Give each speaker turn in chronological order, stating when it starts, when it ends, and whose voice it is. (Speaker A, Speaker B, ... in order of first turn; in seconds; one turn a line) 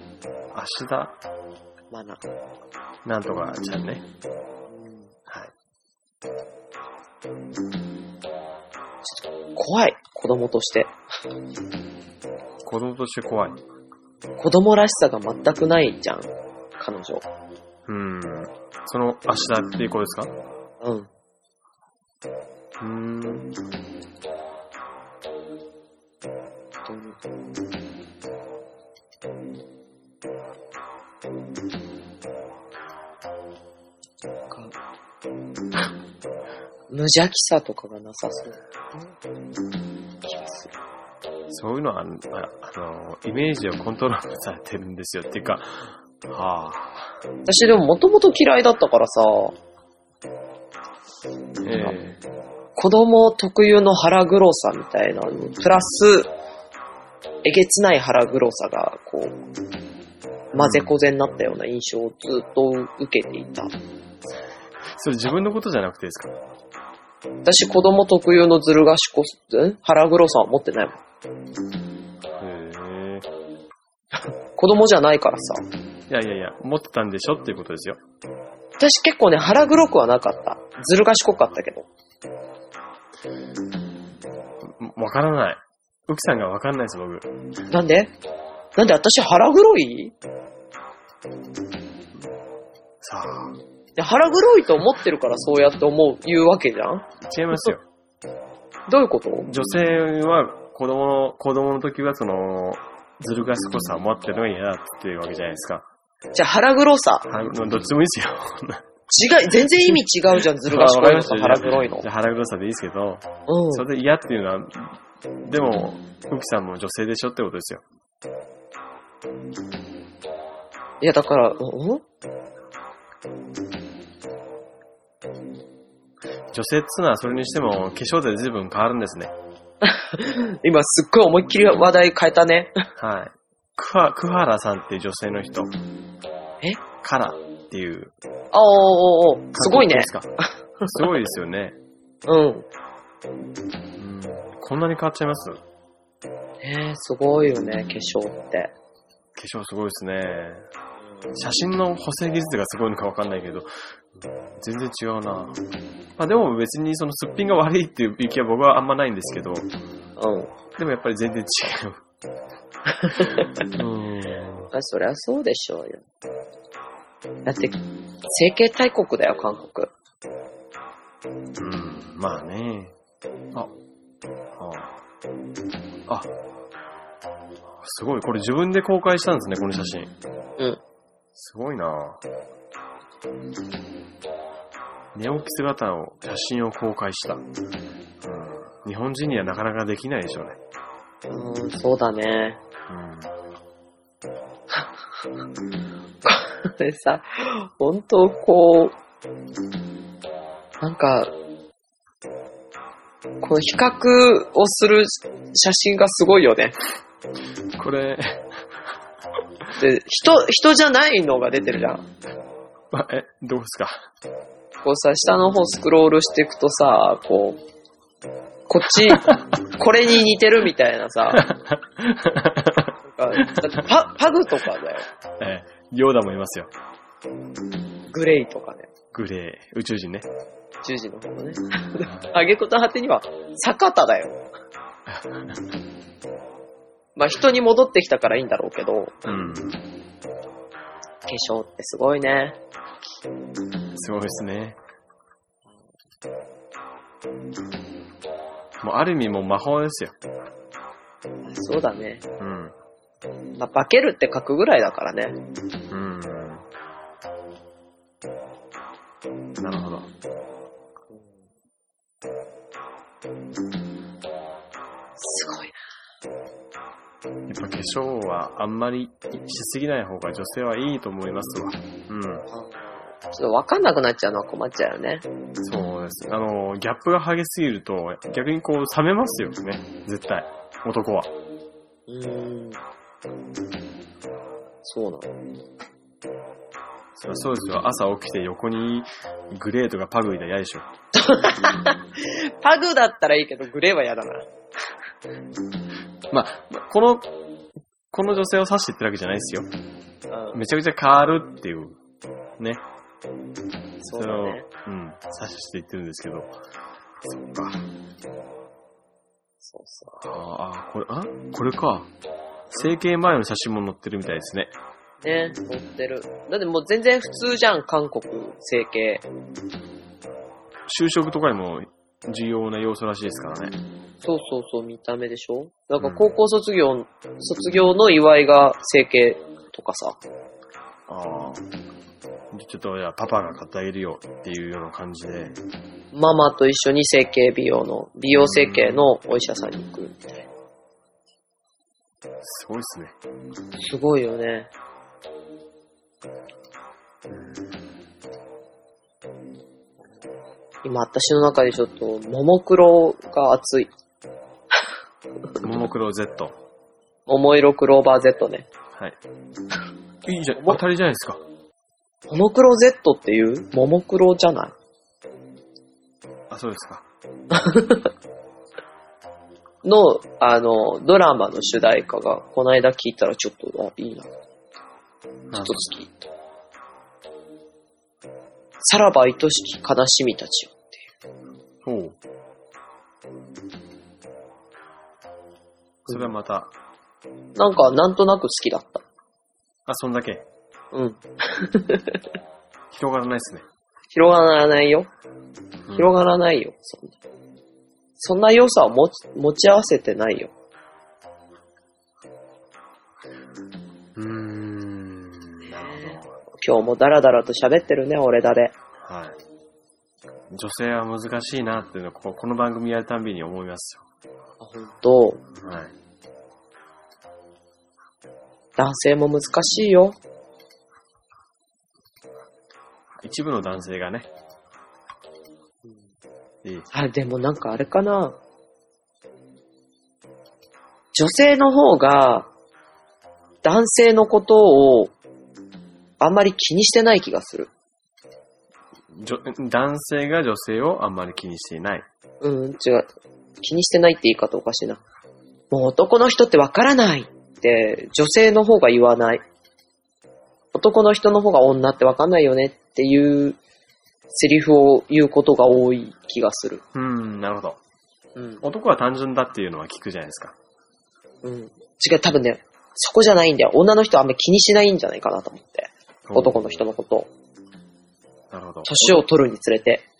Speaker A: 0.5-1.2
Speaker B: 1.9-2.2
Speaker A: 3.0-4.0
Speaker B: 4.7-5.1
Speaker A: 5.3-5.5
Speaker B: 9.0-10.9
Speaker A: 12.6-13.6
Speaker B: 14.4-17.3
Speaker A: 17.9-20.3
Speaker B: 20.8-21.1
Speaker A: 22.8-23.5
Speaker B: 26.9-27.2
Speaker B: 34.5-34.7
Speaker B: 36.9-39.1
Speaker B: 40.2-40.8
Speaker A: 41.5-47.2
Speaker B: 47.5-49.6
Speaker A: 51.6-52.2
Speaker B: 52.8-56.3
Speaker B: 57.4-59.4
Speaker B: 60.5-63.7
Speaker A: 60.5-60.9
Speaker A: 64.9-66.3
Speaker B: 67.4-71.0
Speaker A: 72.4-73.3
Speaker B: 74.5-75.6
Speaker A: 76.1-78.0
Speaker B: 78.8-81.9
Speaker A: 84.6-87.3
Speaker B: 87.7-88.1
Speaker B: 88.8-90.1
Speaker A: 93.0-93.6
Speaker B: 94.0-97.1
Speaker A: 97.2-97.9
Speaker B: 98.9-99.5
Speaker A: 99.5-105.9
Speaker B: 106.3-107.3
Speaker A: 107.3-108.8
Speaker B: 109.1-112.1
Speaker A: 110.6-117.8
Speaker B: 113.5-113.9
Speaker B: 121.0-122.0
Speaker A: 126.5-129.3
Speaker B: 129.8-132.7
Speaker A: 133.0-135.7
Speaker A: 137.0-138.1
Speaker B: 138.5-141.0
Speaker A: 139.6-140.3
Speaker A: 140.8-141.8
Speaker B: 142.3-142.7
Speaker A: 144.0-145.6
Speaker B: 146.6-148.7
Speaker A: 149.4-150.7
Speaker A: 151.3-153.7
Speaker A: 154.6-155.6
Speaker A: 156.2-159.7
Speaker B: 160.2-160.5
Speaker A: 160.8-162.0
Speaker B: 163.0-163.5
Speaker A: 163.2-164.7
Speaker B: 164.7-166.0
Speaker B: 167.4-167.8
Speaker B: 168.3-169.9
Speaker A: 171.6-172.9
Speaker A: 174.6-174.9
Speaker A: 177.8-180.1
Speaker A: 181.3-182.2
Speaker A: 185.1-187.4
Speaker A: 188.2-190.6
Speaker B: 191.3-192.6
Speaker A: 192.9-193.3
Speaker B: 196.2-199.0
Speaker B: 200.8-201.3
Speaker B: 203.4-206.8
Speaker A: 207.8-208.5
Speaker B: 209.8-212.1
Speaker A: 212.9-214.1
Speaker B: 214.8-217.6
Speaker B: 218.7-221.4
Speaker A: 219.1-219.4
Speaker A: 221.3-223.9
Speaker B: 223.1-225.1
Speaker A: 225.4-226.7
Speaker B: 228.1-228.9
Speaker A: 229.1-230.3
Speaker B: 230.8-234.4
Speaker A: 235.1-235.6
Speaker B: 237.2-239.4
Speaker A: 239.2-239.8
Speaker B: 241.3-242.6
Speaker A: 243.9-244.8
Speaker A: 248.8-250.2
Speaker B: 251.4-252.3
Speaker A: 252.4-252.8
Speaker B: 253.6-255.4
Speaker A: 255.9-256.7
Speaker A: 259.6-260.1
Speaker B: 265.2-265.8
Speaker A: 267.5-272.5
Speaker B: 272.5-275.2
Speaker A: 275.6-281.3
Speaker B: 282.1-282.8
Speaker B: 284.8-285.3
Speaker A: 287.2-290.9
Speaker B: 291.2-294.5
Speaker A: 296.3-297.3
Speaker A: 298.1-299.7
Speaker B: 300.3-300.6
Speaker A: 300.5-302.0
Speaker B: 304.0-304.7
Speaker A: 304.0-306.6
Speaker A: 307.2-307.8
Speaker B: 309.6-310.2
Speaker A: 310.2-312.1
Speaker A: 312.7-314.7
Speaker B: 315.2-319.2
Speaker A: 320.9-323.7
Speaker B: 324.2-330.2
Speaker A: 326.0-326.4
Speaker A: 331.1-331.6
Speaker A: 332.5-335.6
Speaker B: 336.1-340.3
Speaker A: 338.4-339.1
Speaker A: 342.4-343.2
Speaker B: 343.8-344.7
Speaker A: 347.3-347.7
Speaker B: 350.8-353.9
Speaker A: 355.6-356.6
Speaker B: 357.3-358.7
Speaker A: 360.2-361.4
Speaker B: 362.3-364.7
Speaker A: 366.5-367.1
Speaker B: 367.5-368.1
Speaker B: 369.8-374.3
Speaker A: 375.5-375.9
Speaker B: 375.5-376.2
Speaker B: 378.8-381.0
Speaker A: 381.8-382.2
Speaker A: 386.1-386.7
Speaker B: 387.6-389.0
Speaker A: 389.9-390.5
Speaker B: 390.9-392.2
Speaker A: 392.9-393.7
Speaker B: 394.1-395.1
Speaker A: 395.9-396.2
Speaker B: 395.9-397.2
Speaker B: 398.2-400.5
Speaker A: 404.2-406.4
Speaker B: 405.6-408.7
Speaker A: 409.0-409.4
Speaker A: 410.5-414.1
Speaker B: 414.6-415.4
Speaker A: 415.6-415.9
Speaker B: 418.8-420.2
Speaker A: 423.2-424.3
Speaker A: 426.6-426.9
Speaker B: 426.9-428.4
Speaker B: 431.1-432.5
Speaker B: 433.6-435.1
Speaker B: 436.2-437.7
Speaker A: 439.1-442.1
Speaker B: 442.4-443.1
Speaker B: 443.6-445.0
Speaker B: 445.7-449.4
Speaker B: 450.7-453.6
Speaker B: 454.3-456.8
Speaker A: 456.9-457.8
Speaker B: 458.4-458.6
Speaker A: 458.6-460.6
Speaker B: 461.4-467.3
Speaker A: 466.3-466.7
Speaker A: 468.5-469.2
Speaker B: 468.9-470.1